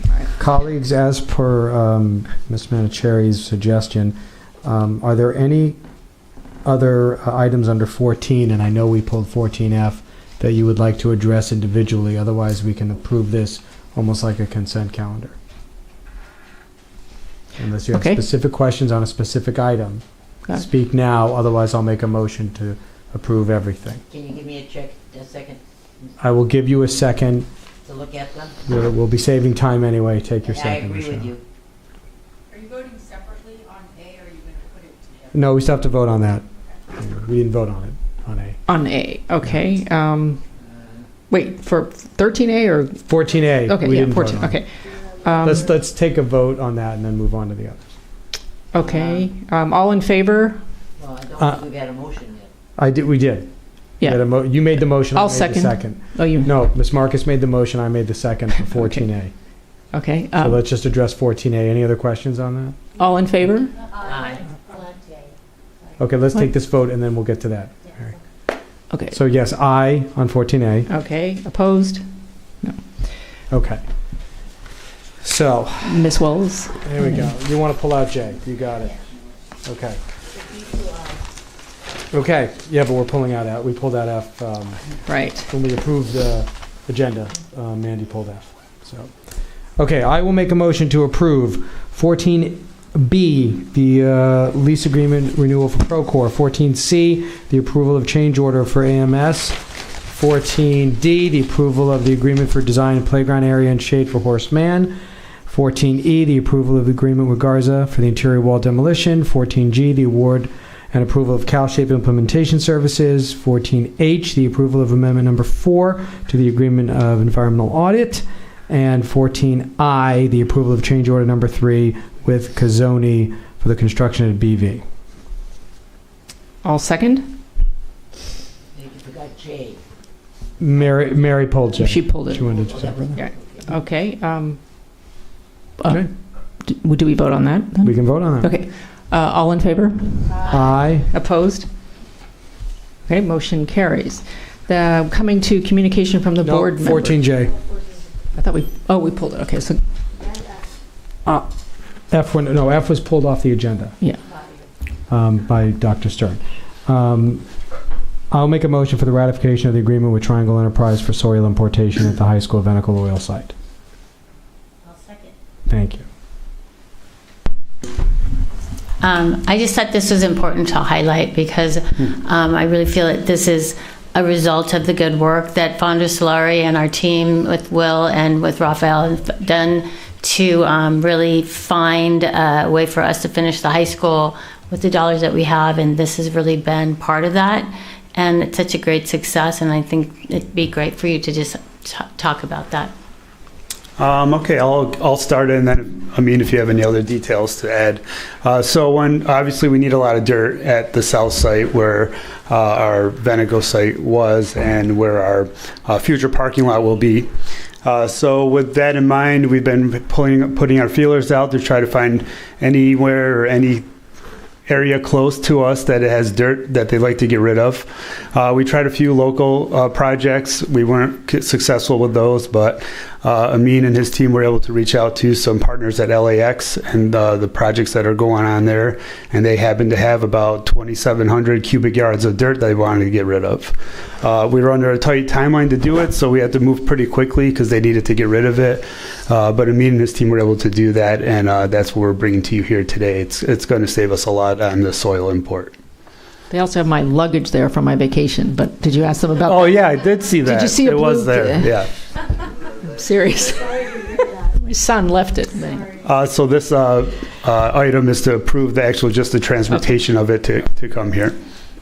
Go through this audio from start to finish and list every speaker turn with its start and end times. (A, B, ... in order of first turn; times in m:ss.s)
0:00.4-0:05.8 A
0:06.6-0:15.4 A
0:17.6-0:24.0 A
0:17.9-0:18.2 B
0:24.1-0:25.6 C
0:26.2-0:27.5 A
0:27.8-0:28.5 C
0:28.7-0:31.4 A
0:30.5-0:31.4 C
0:32.5-0:35.0 D
0:35.3-0:38.6 A
0:38.7-0:40.4 B
0:41.3-0:45.6 B
0:43.1-0:44.6 A
0:45.4-0:47.9 A
0:48.7-0:50.6 B
0:51.0-0:52.5 C
0:51.4-0:51.6 A
0:52.8-0:53.5 A
0:54.0-0:59.3 A
0:55.1-0:56.6 B
0:59.9-1:00.6 B
1:00.4-1:02.8 A
1:03.0-1:03.9 B
1:04.0-1:04.3 D
1:04.1-1:04.4 C
1:06.0-1:08.1 A
1:08.9-1:09.2 B
1:09.1-1:10.9 A
1:10.9-1:12.1 B
1:13.5-1:13.8 A
1:15.2-1:16.0 A
1:15.8-1:17.3 B
1:16.8-1:19.0 A
1:19.6-1:20.0 A
1:22.1-1:24.8 A
1:25.1-1:25.5 B
1:25.5-1:29.1 A
1:29.8-1:45.0 A
1:45.5-2:04.8 A
2:06.6-2:07.4 B
2:08.7-2:09.8 C
2:10.6-2:13.2 A
2:11.8-2:12.5 B
2:13.2-2:14.6 B
2:15.8-2:16.1 B
2:16.6-2:20.5 B
2:17.8-2:18.5 A
2:20.3-2:20.6 D
2:20.5-2:21.1 A
2:21.0-2:21.7 B
2:23.1-2:27.2 B
2:26.4-2:27.6 A
2:27.6-2:27.9 D
2:28.4-2:29.8 B
2:30.2-2:30.6 D
2:32.1-2:34.0 A
2:35.1-2:37.4 A
2:38.3-2:43.5 A
2:44.9-2:45.2 E
2:45.7-2:46.1 A
2:49.0-3:12.9 E
3:14.0-3:27.3 F
3:27.8-3:33.8 F
3:34.7-4:05.8 F
4:06.5-4:09.8 B
4:09.4-4:11.9 F
4:10.4-4:11.8 B
4:12.9-4:13.7 B
4:13.5-4:14.5 D
4:14.5-4:15.9 B
4:15.7-4:16.0 D
4:16.0-4:21.4 F